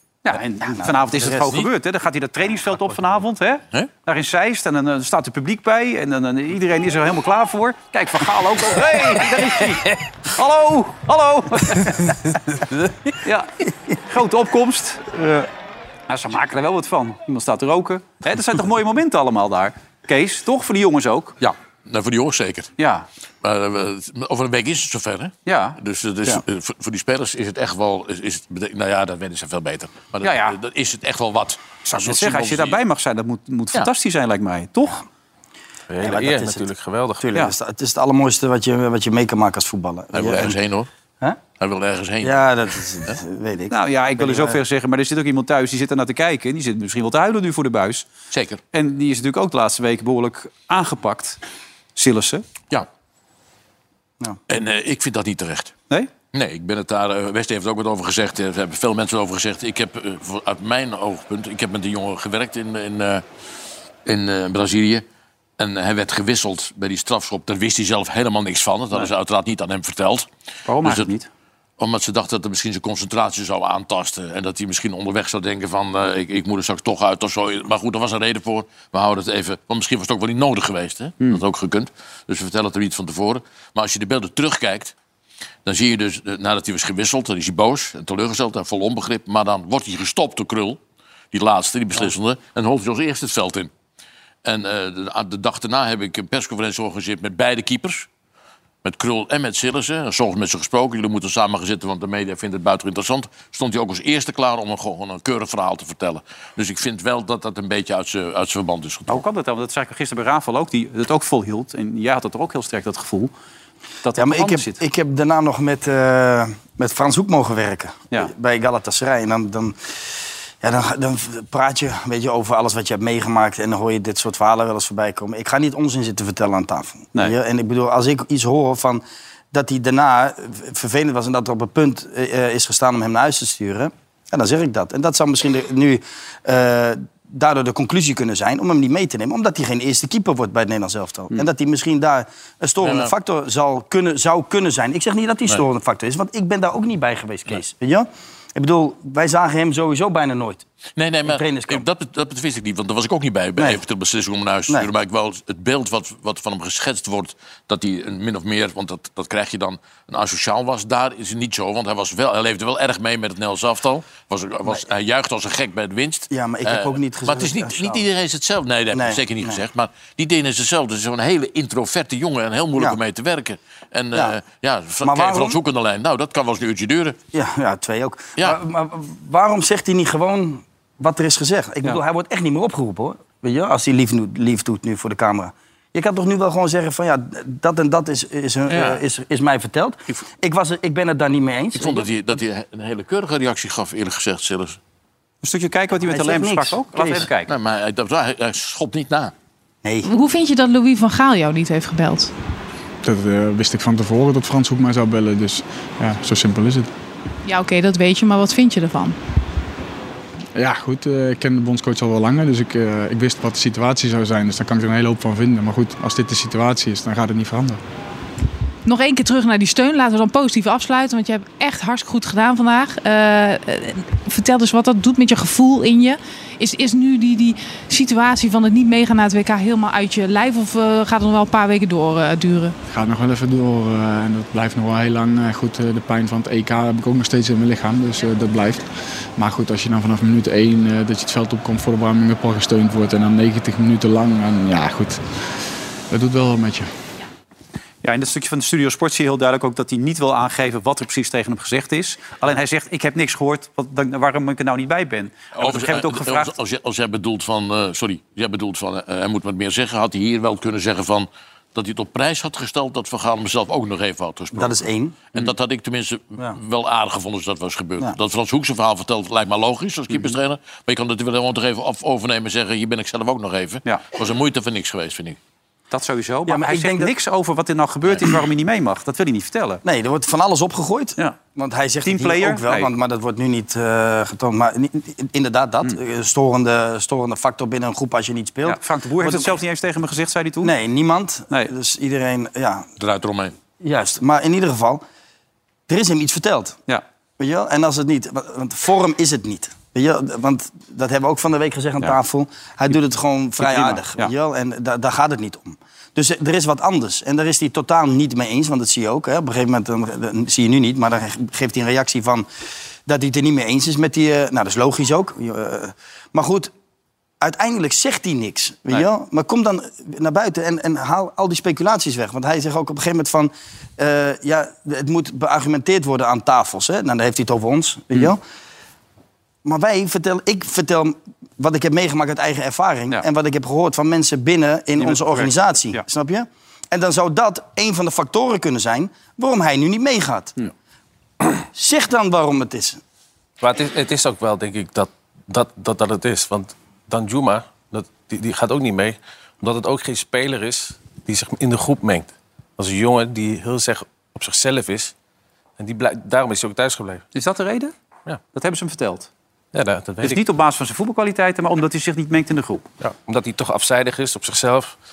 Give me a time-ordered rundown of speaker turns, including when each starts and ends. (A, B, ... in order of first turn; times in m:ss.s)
0:00.2-0:12.2 A
0:00.6-0:01.5 B
0:13.2-0:15.1 A
0:16.1-0:21.4 A
0:21.4-0:22.7 C
0:22.8-0:23.1 A
0:23.4-0:32.8 C
0:25.4-0:25.8 A
0:30.2-0:30.6 A
0:31.8-0:35.0 A
0:35.9-0:37.2 D
0:36.0-0:36.7 B
0:37.2-0:40.6 B
0:40.1-0:40.9 C
0:41.6-0:42.5 C
0:42.2-0:44.6 B
0:43.7-0:48.1 A
0:48.3-0:48.6 C
0:48.7-0:51.4 A
0:52.0-0:52.4 A
0:54.5-0:55.7 C
0:56.3-1:03.2 C
1:04.0-1:05.0 C
1:05.6-1:10.3 C
1:10.6-1:11.3 A
1:10.8-1:11.1 C
1:11.8-1:24.9 C
1:25.6-1:30.8 C
1:31.3-1:33.7 C
1:34.4-1:38.1 C
1:38.8-1:49.2 C
1:49.1-1:53.3 A
1:54.0-1:54.8 A
1:54.1-1:59.9 B
2:00.6-2:30.6 B
2:22.8-2:23.1 C
2:31.0-2:57.2 C
2:31.2-2:31.8 B
2:33.6-2:33.8 B
2:46.3-2:48.0 B
2:48.9-2:49.6 B
2:55.0-2:55.6 B
2:57.3-3:12.0 B
3:08.7-3:09.0 C
3:11.8-3:14.8 C
3:15.4-3:17.5 A
3:16.0-3:17.3 B
3:17.5-3:19.3 C
3:19.8-3:20.1 B
3:20.0-3:22.3 E
3:23.0-3:26.9 F
3:27.4-3:29.2 E
3:30.6-3:37.8 F
3:38.8-3:52.8 E
3:52.9-3:58.8 F
3:59.4-4:05.2 F
4:06.1-4:06.9 F
4:08.0-4:16.5 A
4:15.6-4:24.8 C
4:24.5-4:25.4 B
4:25.3-4:35.4 C
4:35.9-4:39.8 A
4:36.5-4:37.1 B
4:39.8-4:49.6 B
4:42.0-4:42.9 A
4:48.6-4:50.7 A
4:50.6-4:52.9 B
4:53.0-4:53.5 C
4:53.8-4:55.0 B
4:55.9-4:56.8 B
4:57.4-5:12.5 B
5:03.6-5:04.3 A
5:13.0-5:16.7 B
5:17.4-5:28.4 B
5:29.6-5:40.6 B
5:35.0-5:36.0 A
5:41.4-5:43.0 B
5:43.6-5:55.1 D
5:55.8-5:57.2 D
5:57.3-5:57.9 A
5:58.5-5:59.3 A
5:59.7-6:00.4 D
6:00.2-6:02.9 A
6:03.0-6:05.0 D